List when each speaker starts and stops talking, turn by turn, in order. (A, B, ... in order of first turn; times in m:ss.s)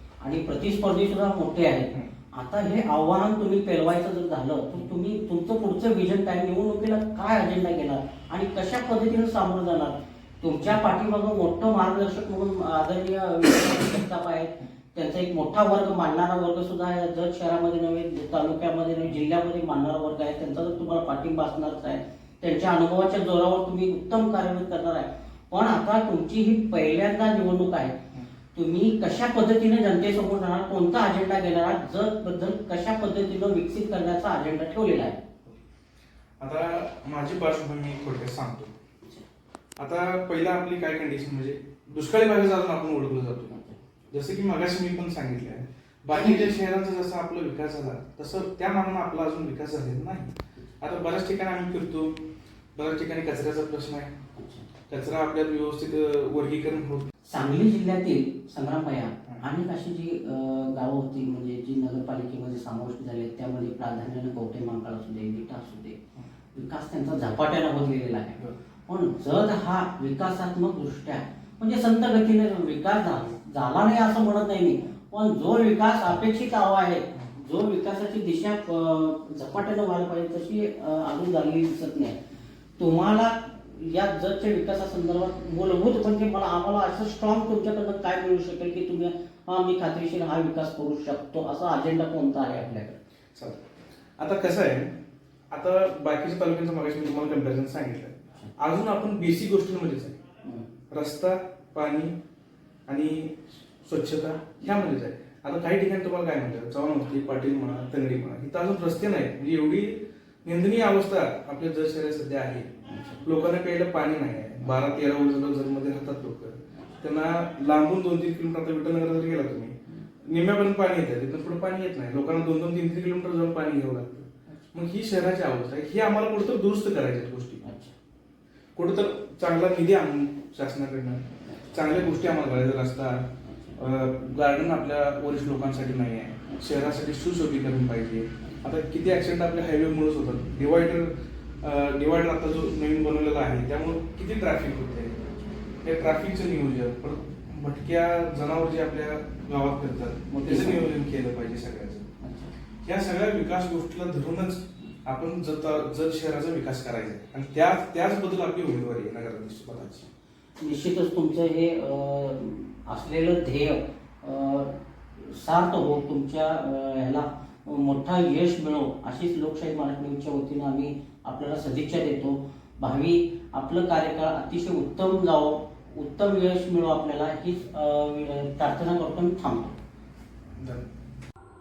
0:00.2-0:28.0 A
0:28.5-0:35.2 A
0:36.4-0:38.7 B
0:39.8-0:43.6 B
0:43.5-0:43.8 A
0:44.1-0:52.2 B
0:52.8-0:54.1 B
0:54.4-0:54.7 A
0:54.9-0:57.1 B
0:57.2-1:06.0 A
1:06.5-1:22.2 A
1:22.8-1:33.0 A
1:33.3-1:33.6 B
1:34.2-1:34.9 B
1:35.5-1:40.2 B
1:40.4-1:40.7 A
1:40.9-1:42.1 B
1:42.9-1:52.7 B
1:52.9-1:53.2 A
1:53.2-2:07.6 B
1:56.7-1:57.0 A
2:07.6-2:07.9 A
2:08.8-2:25.2 B
2:11.4-2:11.7 A
2:13.4-2:13.8 A
2:25.8-2:32.1 B
2:30.4-2:30.9 A
2:32.2-2:32.5 A
2:32.8-2:40.1 B
2:40.6-2:59.8 A
3:00.6-3:00.8 B